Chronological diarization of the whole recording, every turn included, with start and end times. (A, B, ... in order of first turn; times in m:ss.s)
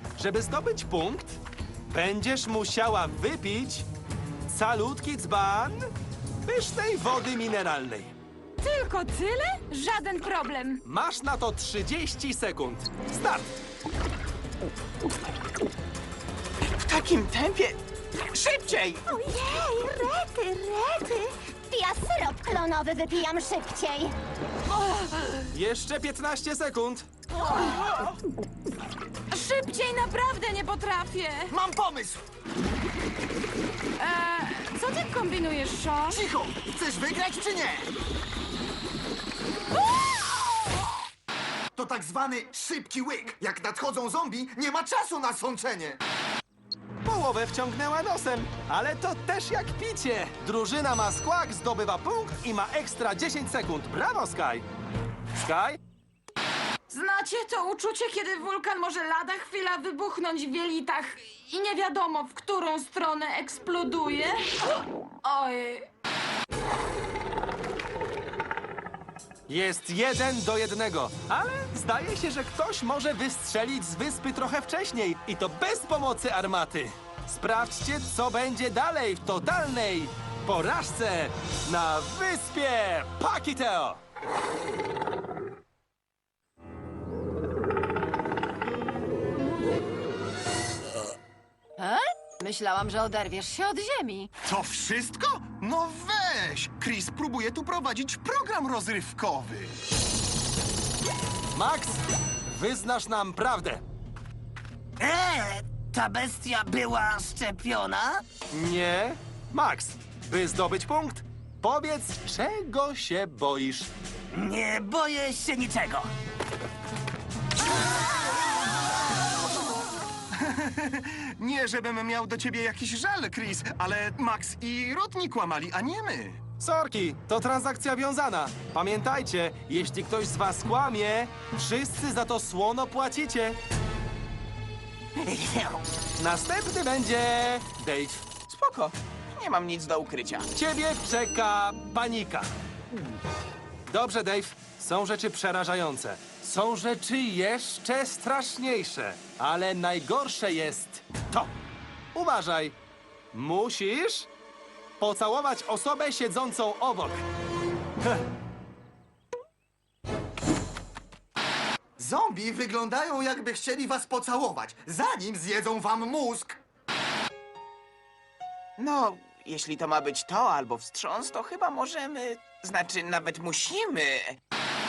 0:00.2-0:03.9 A
0:04.5-0:05.9 A
0:06.4-0:08.1 A
0:08.6-0:10.8 B
0:10.8-0:13.5 A
0:16.7-0:17.8 C
0:18.3-0:19.0 C
0:19.1-0:21.3 B
0:21.7-0:24.1 D
0:24.8-0:25.3 B
0:25.5-0:27.1 A
0:29.3-0:31.5 B
0:31.5-0:32.2 E
0:34.0-0:36.2 B
0:36.1-0:37.9 E
0:41.7-0:46.0 E
0:47.0-0:54.6 A
0:55.3-0:55.8 A
0:56.9-1:04.5 B
1:05.2-1:05.9 B
1:09.5-1:24.0 A
1:31.8-1:34.3 F
1:34.4-1:39.8 G
1:41.5-1:43.8 A
1:45.0-1:48.2 H
1:48.5-1:53.9 A
1:54.3-1:56.1 H
2:00.4-2:06.4 G
2:06.6-2:13.6 A
2:15.3-2:15.8 H
2:16.2-2:18.2 A
2:18.5-2:20.5 C
2:20.5-2:22.5 A
2:23.9-2:31.5 A
2:32.1-2:32.7 A
2:33.3-2:34.3 A
2:35.0-2:37.2 A
2:42.0-2:46.6 E
2:48.8-2:54.4 C